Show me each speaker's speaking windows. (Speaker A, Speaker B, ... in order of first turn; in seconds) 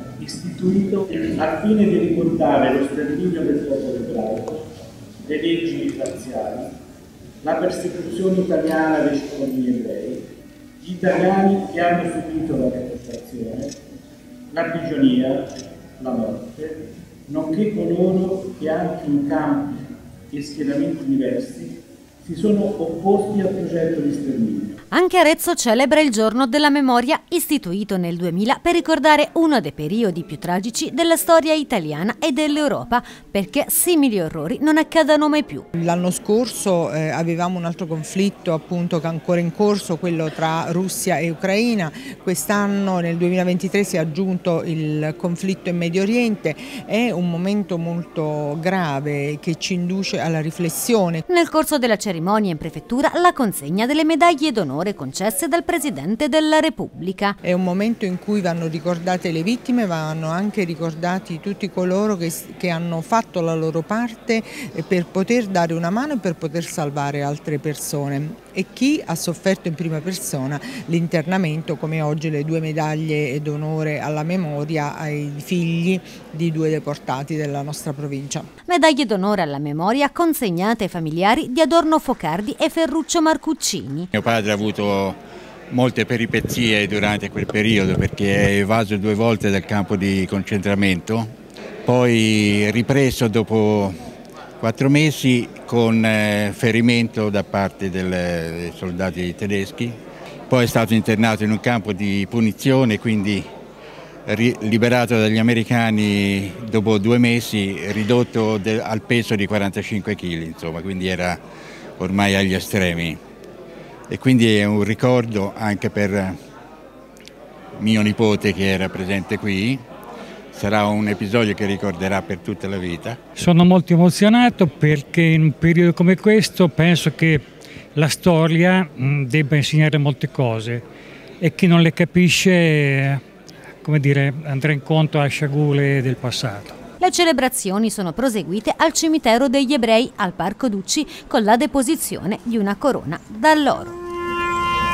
Speaker A: 0.2-4.7, 5.2-6.7, 7.4-10.2, 10.8-13.7, 14.5-15.5, 16.0-19.8, 20.3-24.8
Speaker B: 24.9-35.6, 51.3-57.4, 78.7-84.1, 137.0-143.9
Speaker C: 35.7-51.2, 57.4-78.5
Speaker D: 84.1-85.2, 85.7-91.3, 91.8-94.0, 94.6-100.0, 100.5-103.5, 104.2-111.4, 112.0-113.2, 114.1-116.3, 117.8-119.8, 120.5-123.2
Speaker E: 123.3-127.4, 127.9-130.8, 131.4-133.2, 133.8-136.8